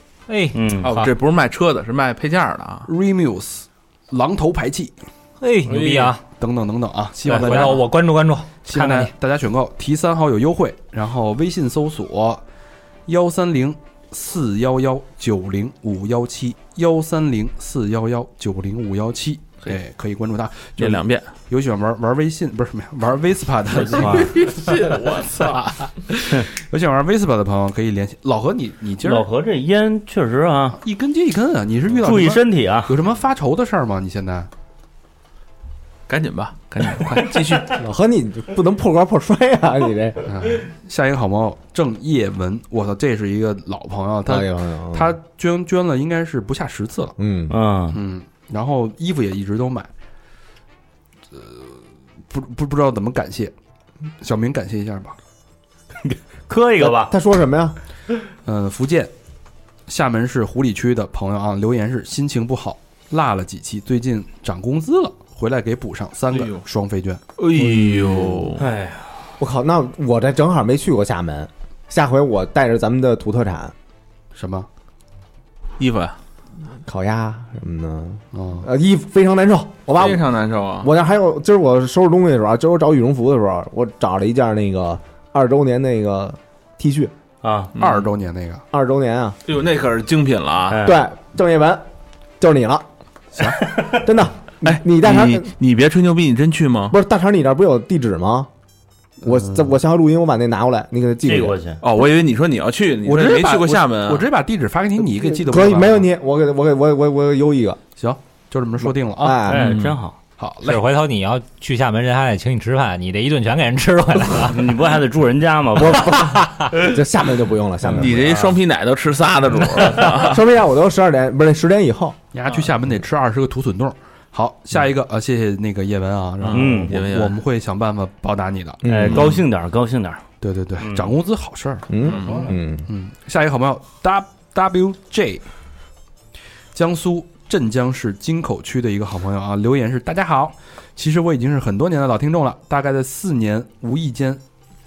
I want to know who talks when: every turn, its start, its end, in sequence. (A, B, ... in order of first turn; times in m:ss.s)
0:00.3-0:01.1 A
0:00.5-0:00.9 B
0:00.8-0:02.9 C
0:02.9-0:05.0 D
0:05.4-0:06.2 A
0:05.7-0:07.9 D
0:07.2-0:09.1 A
0:08.6-0:12.4 D
0:13.1-0:29.3 D
0:20.8-0:21.3 C
0:23.8-0:25.7 C
0:29.0-0:30.8 B
0:30.8-0:34.5 D
0:32.0-0:33.0 B
0:36.1-0:37.8 C
0:37.6-0:40.5 E
0:40.2-0:47.1 D
0:44.2-0:45.2 E
0:47.2-0:47.5 E
0:47.5-0:48.0 B
0:47.9-0:49.9 D
0:51.3-0:53.5 D
0:54.2-0:55.2 D
0:56.0-0:57.1 B
0:56.8-0:57.8 E
0:58.4-0:59.1 D
0:59.9-1:07.2 D
1:06.3-1:06.6 C
1:07.4-1:08.6 C
1:08.1-1:09.3 B
1:09.4-1:13.7 E
1:14.3-1:14.7 D
1:15.8-1:16.2 C
1:16.7-1:20.2 E
1:18.3-1:18.7 D
1:20.0-1:20.9 C
1:20.8-1:27.1 E
1:27.4-1:27.7 B
1:27.8-1:28.0 C
1:27.8-1:28.6 D
1:28.7-1:29.4 E
1:29.4-1:30.8 C
1:30.7-1:31.0 B
1:30.8-1:31.8 E
1:32.4-1:32.9 E
1:33.3-1:33.6 D
1:33.7-1:34.0 B
1:33.9-1:35.5 E
1:34.6-1:36.9 C
1:36.9-1:38.5 E
1:39.2-1:41.6 E
1:41.2-1:41.8 B
1:41.8-1:44.2 C
1:43.0-1:46.0 D
1:45.0-1:47.8 E
1:48.0-1:49.4 D
1:49.2-1:49.7 E
1:49.4-1:50.2 B
1:50.4-1:50.8 D
1:50.6-1:54.6 A
1:54.4-1:56.3 B
1:55.8-1:58.6 E
1:57.9-2:00.4 C
2:00.0-2:02.2 E
2:02.3-2:08.8 D
2:06.4-2:07.4 C
2:06.5-2:06.9 B
2:08.8-2:09.4 E
2:08.9-2:10.2 B
2:10.4-2:15.4 D
2:10.8-2:11.1 B
2:11.9-2:12.9 E
2:12.0-2:12.5 C
2:16.7-2:24.4 D